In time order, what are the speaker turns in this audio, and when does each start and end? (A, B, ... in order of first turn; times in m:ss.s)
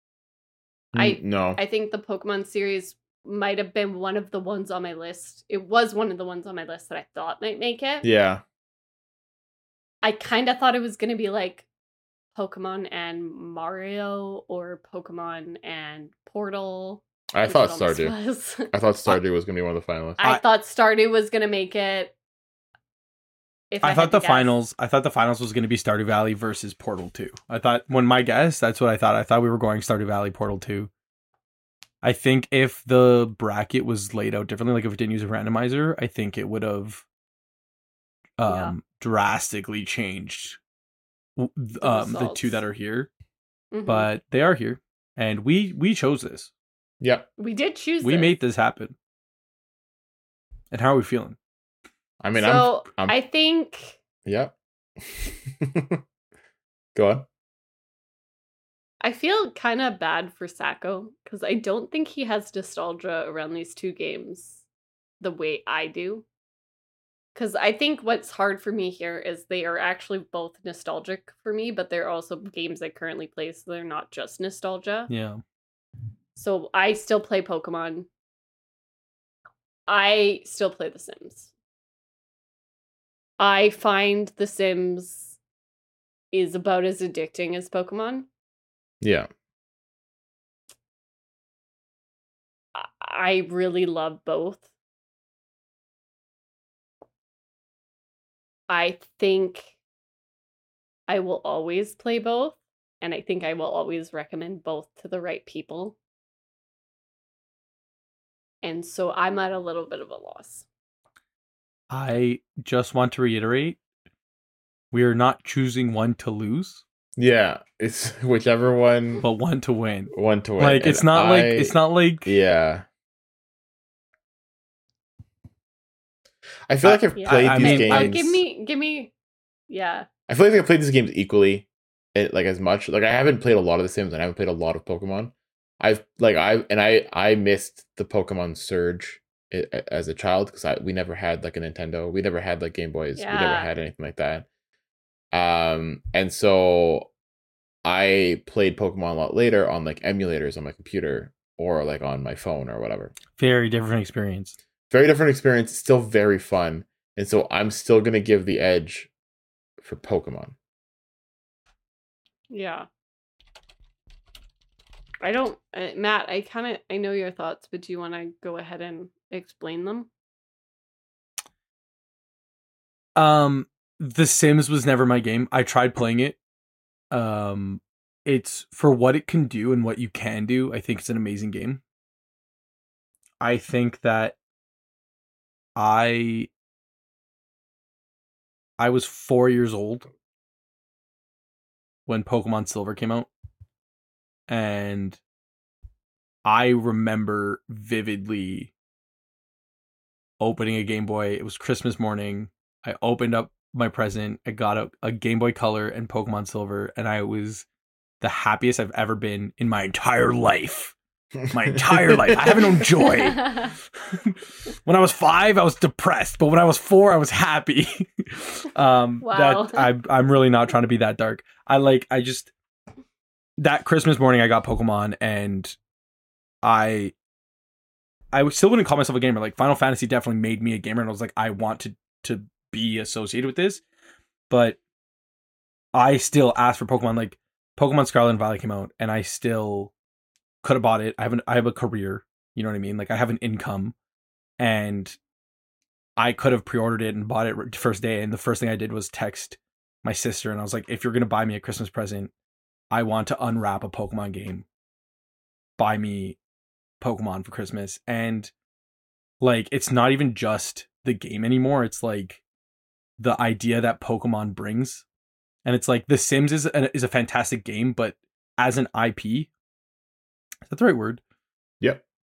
0:00.9-0:01.6 A
0:01.0-0:08.1 B
0:08.0-0:08.4 A
0:10.0-0:11.7 B
0:12.4-0:19.1 B
0:17.3-0:18.2 A
0:18.7-0:20.2 A
0:20.2-0:22.2 B
0:23.7-0:24.6 B
0:23.8-0:30.9 C
0:32.0-0:37.0 C
0:38.4-0:40.6 C
0:38.5-0:38.7 B
0:41.4-0:43.1 C
0:41.8-0:42.6 B
0:43.7-0:44.1 B
0:43.9-0:46.5 C
0:47.0-0:47.3 A
0:47.4-0:48.3 B
0:48.0-0:49.0 C
0:50.7-0:51.4 C
0:52.2-0:53.2 A
0:52.3-0:54.0 B
0:54.2-0:56.0 A
0:57.0-0:57.3 A
0:59.0-1:04.6 B
1:05.2-1:06.2 B
1:07.4-1:15.1 B
1:15.1-1:15.4 C
1:16.4-1:18.1 B
1:19.9-1:21.5 B
1:23.4-1:25.4 B
1:26.3-1:28.3 B
1:29.0-1:29.3 A
1:32.8-1:34.7 B
1:38.7-1:39.8 B
1:41.1-1:46.0 B
1:48.6-1:50.7 B
1:51.9-1:53.8 C
1:54.9-1:56.8 C
1:57.2-1:59.2 A
1:59.2-2:02.3 C
2:00.1-2:02.9 A
2:06.7-2:08.2 A
2:06.8-2:08.3 C
2:07.2-2:09.1 B
2:09.7-2:10.1 B
2:10.3-2:24.5 A
2:23.2-2:23.7 B
2:25.3-2:27.1 A
2:27.8-2:33.2 A
2:33.4-2:34.6 C
2:34.9-2:39.1 A
2:39.8-2:40.6 A
2:42.5-2:42.9 B
2:45.2-2:50.1 B
2:53.2-2:56.4 C
2:57.1-3:01.8 C
3:03.4-3:04.4 C
3:05.8-3:06.5 C
3:08.8-3:10.1 C
3:12.1-3:13.3 C
3:14.5-3:15.2 C
3:16.4-3:18.7 C
3:20.4-3:27.7 C
3:28.2-3:31.0 C
3:31.5-3:42.5 C
3:31.9-3:32.4 A
3:39.2-3:39.9 B
3:43.6-3:45.8 C
3:46.6-3:47.1 C
3:48.3-3:53.8 C
3:54.5-3:54.8 C
3:55.9-3:59.9 C
4:00.6-4:04.0 C
4:04.6-4:05.2 C
4:06.2-4:12.3 C
4:12.9-4:14.6 C
4:15.8-4:16.4 C
4:17.0-4:18.5 C
4:19.4-4:22.4 C
4:23.2-4:25.0 C
4:25.6-4:29.5 C
4:30.7-4:31.2 C